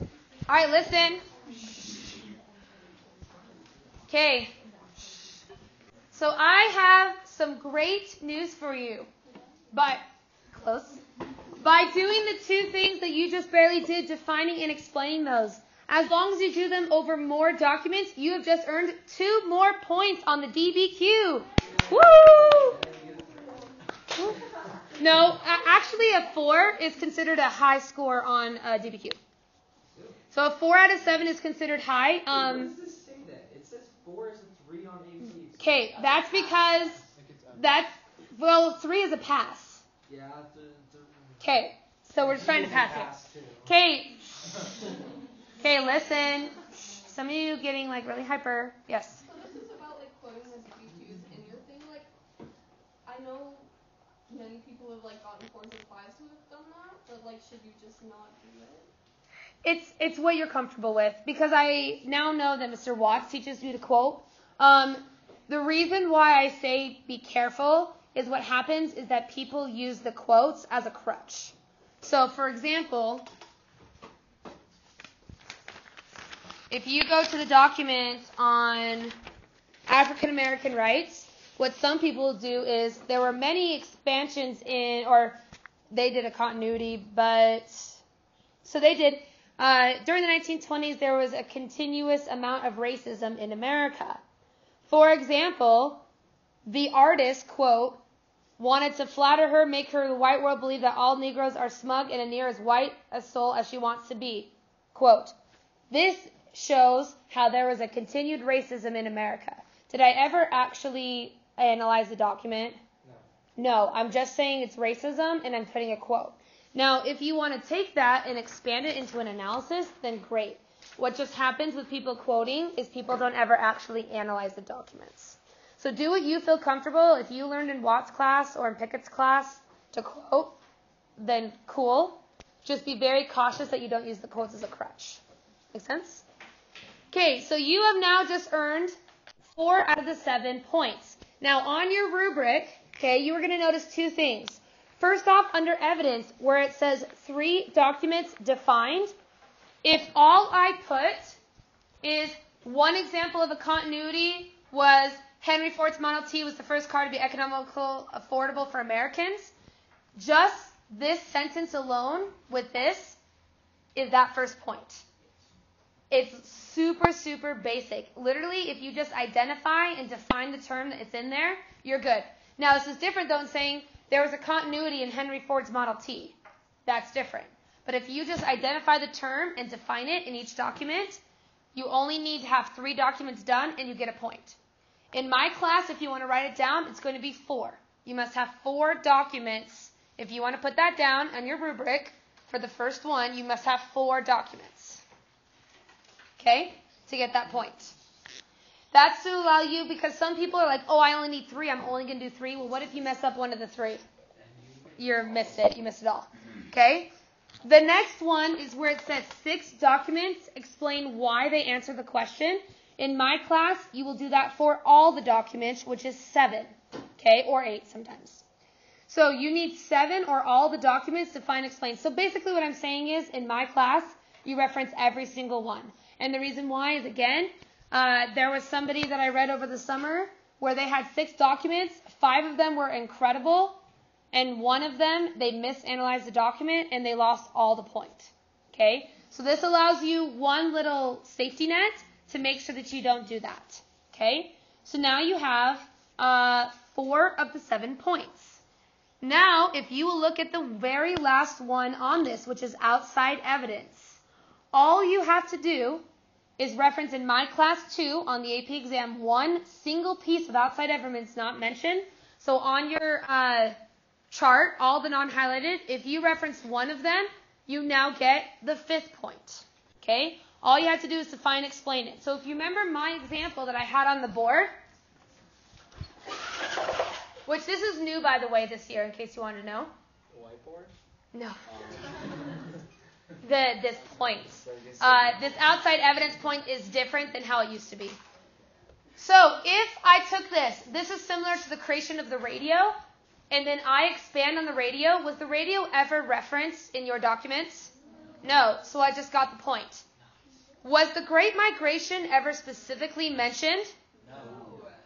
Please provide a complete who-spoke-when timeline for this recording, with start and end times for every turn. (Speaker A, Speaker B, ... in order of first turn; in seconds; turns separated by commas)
Speaker A: 0.5-1.2, Speaker A: 4.1-4.5, Speaker A: 6.1-9.1, Speaker A: 9.7-11.0, Speaker A: 11.6-22.8, Speaker A: 25.0-29.2, Speaker A: 30.3-32.7, Speaker B: 32.3-35.6, Speaker A: 35.6-37.0, Speaker B: 37.2-37.4, Speaker A: 37.5-39.8, Speaker B: 40.1-41.3, Speaker A: 41.4-44.5, Speaker B: 42.2-43.6, Speaker A: 45.6-49.2, Speaker C: 49.2-52.1, Speaker C: 53.0-53.7, Speaker C: 54.3-58.9, Speaker A: 59.6-73.3, Speaker A: 76.7-79.1, Speaker A: 79.9-85.4, Speaker A: 85.9-88.0, Speaker A: 88.6-94.2, Speaker A: 94.9-96.0, Speaker A: 96.7-98.0, Speaker A: 98.6-105.3, Speaker A: 105.9-112.8, Speaker A: 113.6-130.6, Speaker A: 131.2-135.2, Speaker A: 135.7-136.2, Speaker A: 137.1-138.9, Speaker A: 139.5-149.1, Speaker A: 149.8-151.4, Speaker A: 152.0-159.5, Speaker A: 160.1-163.2, Speaker A: 163.9-165.0, Speaker A: 166.1-181.2, Speaker A: 181.7-184.6, Speaker A: 185.1-195.0, Speaker A: 196.4-197.9, Speaker A: 198.9-204.0, Speaker A: 205.0-207.1, Speaker A: 207.6-218.4, Speaker A: 219.1-233.8, Speaker A: 234.3-248.6, Speaker A: 249.2-254.2, Speaker A: 254.7-256.0, Speaker A: 256.6-263.7, Speaker A: 264.3-274.7, Speaker A: 277.4-279.9, Speaker B: 280.3-280.9, Speaker A: 281.3-281.6, Speaker B: 281.6-282.1, Speaker A: 283.4-288.2, Speaker B: 284.6-285.4, Speaker A: 289.2-292.9, Speaker A: 293.5-300.0, Speaker A: 300.8-303.9, Speaker B: 304.2-304.8